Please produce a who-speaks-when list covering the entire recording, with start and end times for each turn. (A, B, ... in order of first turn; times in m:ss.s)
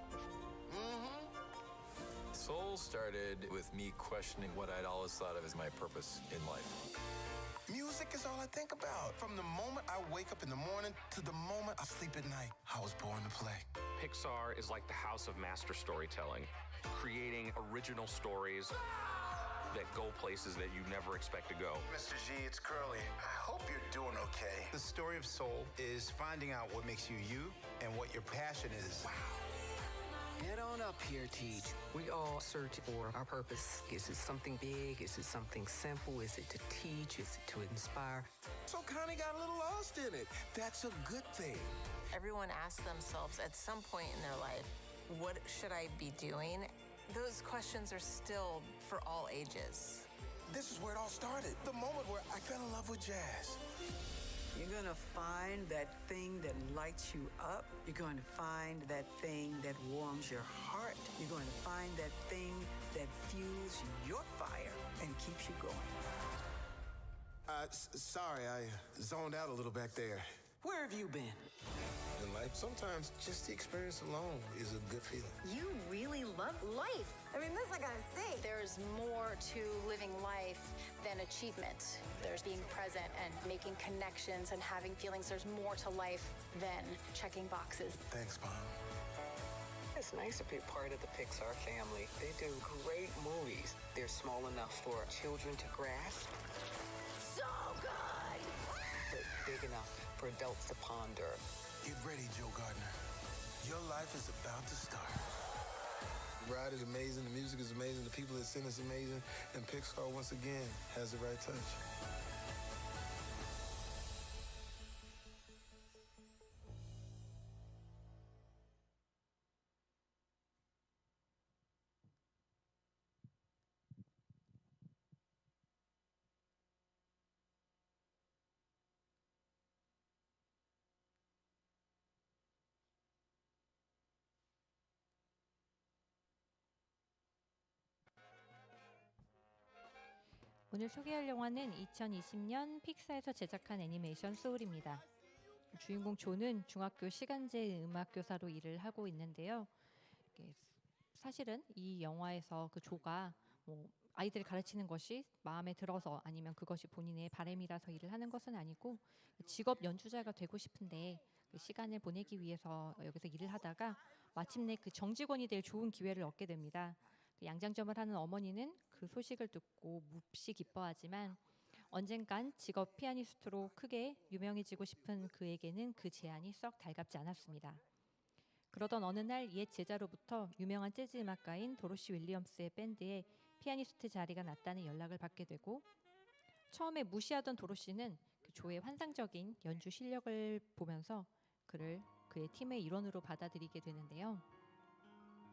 0:00.7-0:01.3 A
0:02.3-0:06.8 B
0:07.7-0:13.7 A
0:14.0-0:18.7 C
0:19.5-0:21.8 C
0:21.9-0:24.8 A
0:24.9-0:29.0 D
0:30.4-0:38.3 E
0:38.7-0:41.8 A
0:42.1-0:50.1 F
0:50.5-0:53.6 A
0:54.6-1:06.0 G
1:07.5-1:10.3 A
1:10.6-1:11.4 G
1:12.2-1:15.4 A
1:15.4-1:18.4 H
1:18.4-1:28.0 I
1:28.1-1:28.7 A
1:30.0-1:36.4 E
1:38.9-1:41.4 E
1:41.8-1:43.0 A
1:43.6-1:45.2 A
1:46.4-1:51.8 A
2:20.7-2:25.0 J
2:25.7-2:29.7 J
2:30.4-2:51.4 J
2:51.9-2:57.8 J
2:58.7-3:05.9 J
3:06.7-3:14.4 J